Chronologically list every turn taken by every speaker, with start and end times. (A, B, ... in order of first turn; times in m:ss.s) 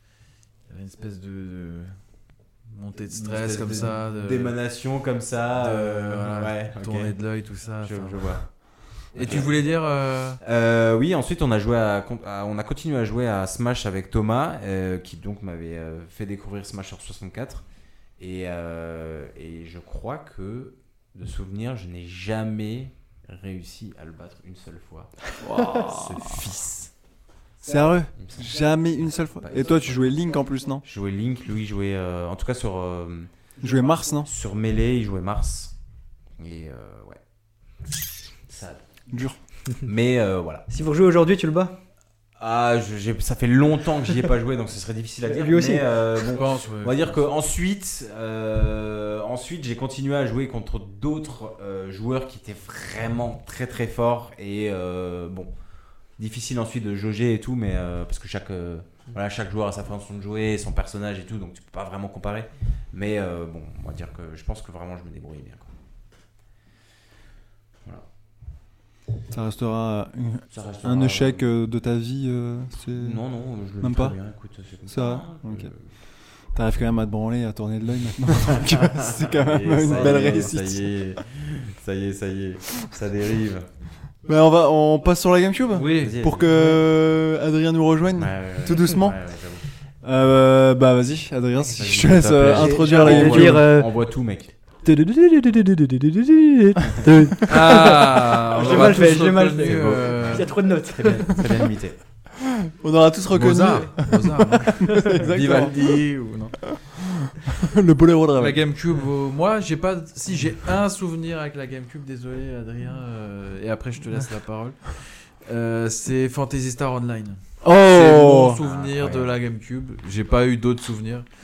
0:00.7-0:02.0 A
0:02.7-0:04.5 A
0:03.1-0:07.2 B
0:05.6-0:08.4 A
0:07.8-0:08.4 B
0:09.1-0:09.6 B
0:09.1-0:10.4 A
0:10.4-0:17.6 B
0:18.2-0:26.9 B
0:25.4-0:26.4 C
0:27.6-0:30.8 C
0:28.1-0:28.5 B
0:29.4-0:30.1 B
0:30.8-0:33.3 B
0:33.6-0:34.3 C
0:34.2-0:35.7 B
0:36.4-0:37.2 B
0:38.5-0:38.8 B
0:39.1-0:39.4 C
0:39.8-0:40.7 B
0:40.7-0:41.8 D
0:42.4-0:55.5 B
0:45.2-0:45.9 D
0:46.2-0:47.2 A
0:56.2-1:05.7 B
1:09.3-1:13.2 C
1:10.5-1:11.4 B
1:12.9-1:15.8 B
1:13.8-1:14.2 C
1:14.8-1:15.7 C
1:16.5-1:20.9 C
1:18.4-1:23.7 B
1:24.2-1:29.2 C
1:25.7-1:26.7 A
1:26.0-1:26.5 B
1:28.2-1:29.6 B
1:30.0-1:33.7 C
1:31.6-1:34.5 B
1:32.5-1:33.9 D
1:34.8-1:41.4 D
1:37.5-1:40.5 A
1:38.6-1:39.0 B
1:39.8-1:42.0 B
1:42.4-1:45.8 C
1:43.3-1:44.9 A
1:45.2-1:46.6 B
1:46.7-1:48.6 C
1:48.4-2:01.2 A
1:57.6-1:58.6 C
1:58.6-1:59.3 B